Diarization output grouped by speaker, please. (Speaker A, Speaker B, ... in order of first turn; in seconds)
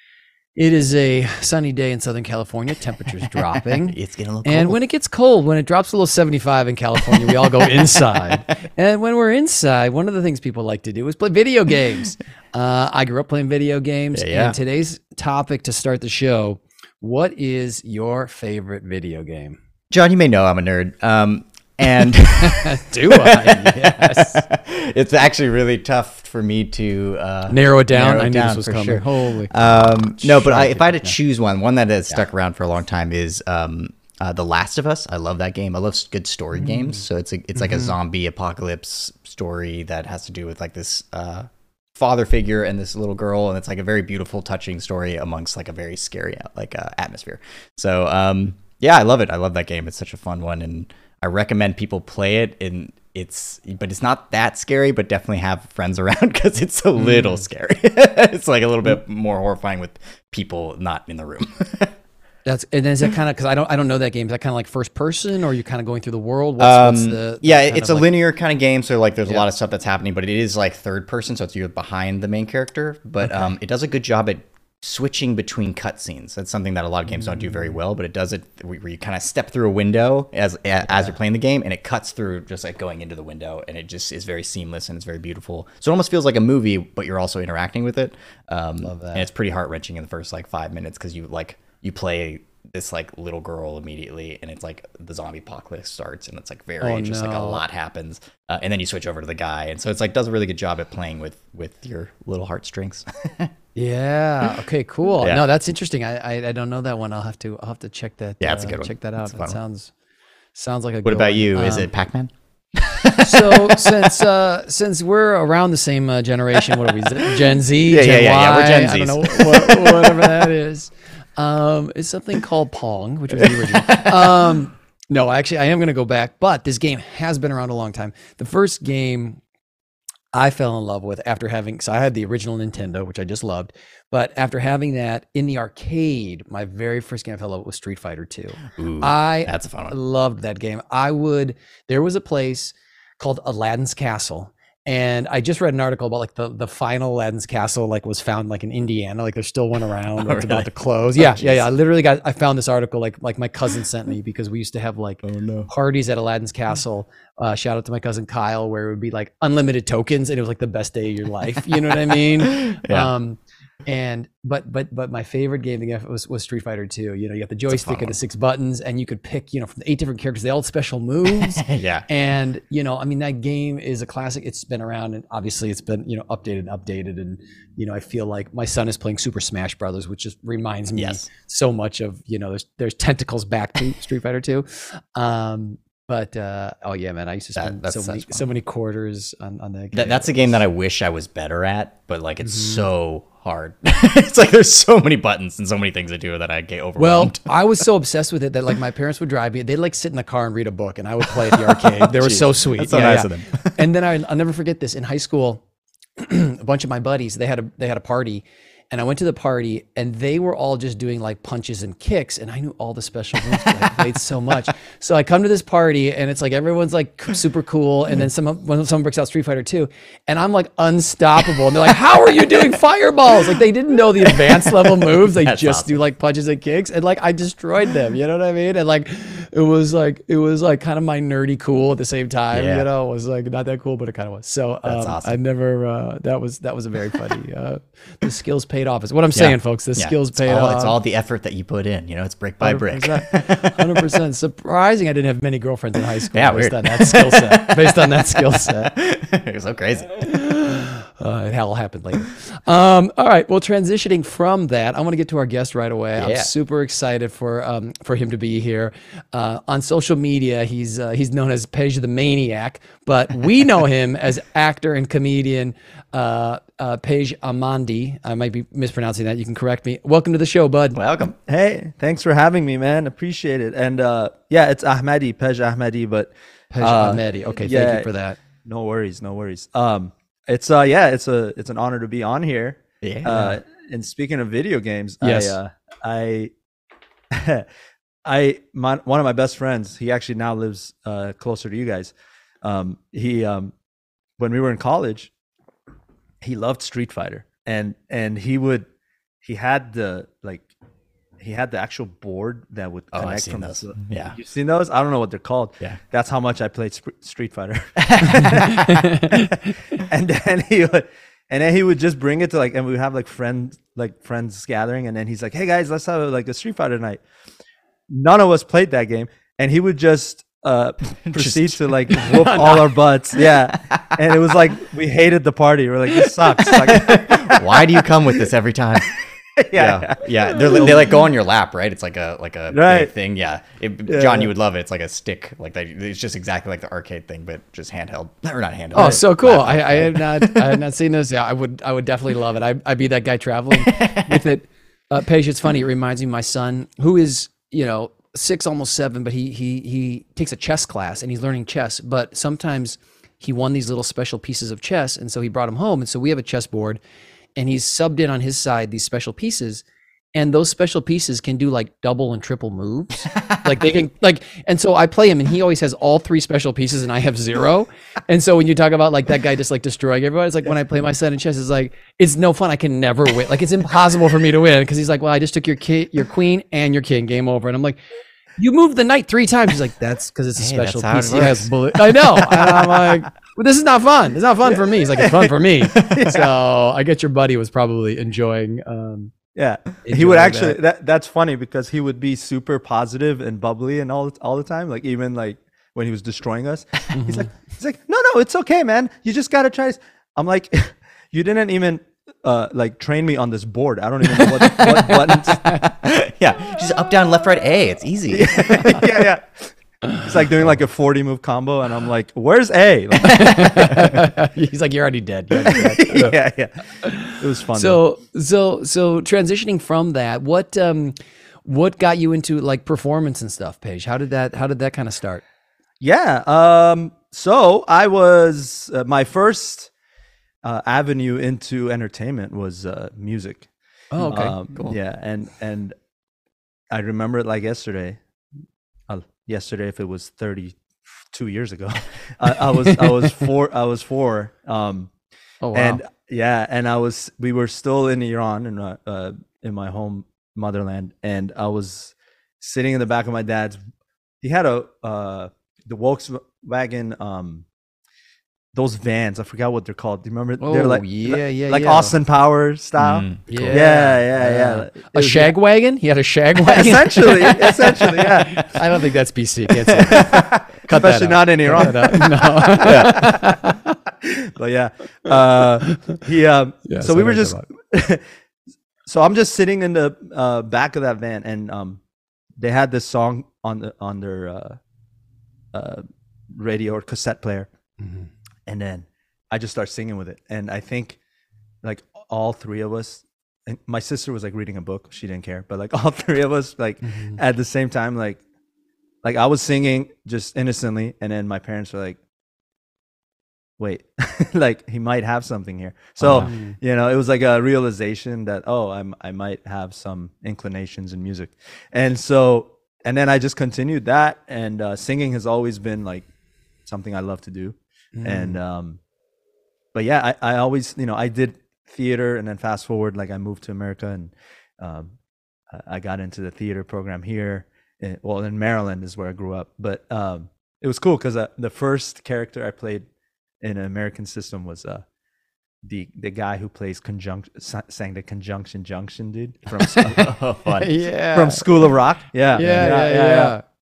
Speaker A: 0.6-19.6, 22.4-24.4, 27.5-31.2, 37.5-38.0, 62.5-68.1, 88.8-89.3, 96.8-97.6, 103.8-109.9, 110.5-111.9, 113.2-129.4, 130.3-190.5, 192.4-192.9, 197.0-205.6, 206.2-241.0, 242.6-248.9, 250.2-271.0, 276.7-278.4, 283.3-283.6, 285.2-285.6, 322.3-322.7, 338.9-357.0, 357.6-378.0, 378.6-389.3, 390.0-390.8, 397.1-397.5, 413.2-416.4, 417.0-425.4, 434.1-434.6, 445.6-446.0, 460.6-462.2, 463.5-473.9, 475.3-476.2, 476.9-477.6, 488.0-488.3, 497.0-497.4, 506.4-506.8, 518.1-518.6, 540.7-541.7, 542.5-543.6
Speaker B: 3.7-4.8, 14.1-14.6, 19.9-62.0, 66.6-103.5, 108.4-109.6, 111.0-113.9, 117.9-120.5, 123.4-124.5, 138.8-139.9, 150.2-151.7, 155.2-155.7, 162.3-163.1, 167.7-168.2, 171.3-172.1, 180.9-181.2, 187.6-188.5, 189.9-197.8, 201.3-203.8, 213.6-214.0, 224.2-226.0, 232.5-232.9, 234.8-235.4, 239.4-244.0, 246.3-250.5, 256.1-256.5, 270.9-271.4, 283.0-283.3, 303.1-304.4, 308.0-309.0, 321.2-322.8, 326.6-329.2, 329.7-340.7, 343.8-344.5, 363.4-363.7, 380.6-382.9, 404.4-409.1, 463.0-463.8, 506.2-506.5, 540.0-540.9
Speaker C: 271.4-278.1, 278.6-286.5, 287.3-287.7, 288.2-293.7, 294.4-295.3, 296.4-298.9, 299.4-300.7, 301.4-317.2, 318.1-328.0, 329.6-331.2, 332.7-333.1, 334.1-334.5, 384.8-385.4, 385.9-386.5, 389.6-405.7, 408.3-414.0, 415.7-418.0, 426.0-429.9, 430.6-433.7, 434.3-435.9, 436.9-438.2, 439.1-445.1, 445.7-453.8, 454.4-457.6, 458.7-465.5, 466.6-468.7, 470.1-473.1, 474.2-478.3, 479.1-482.0, 482.6-484.8, 485.7-487.7, 488.7-491.2, 491.8-498.4, 499.2-502.2, 503.8-516.3, 516.9-519.0, 519.9-525.1, 525.7-533.0, 533.6-535.0, 535.8-540.4, 541.3-543.5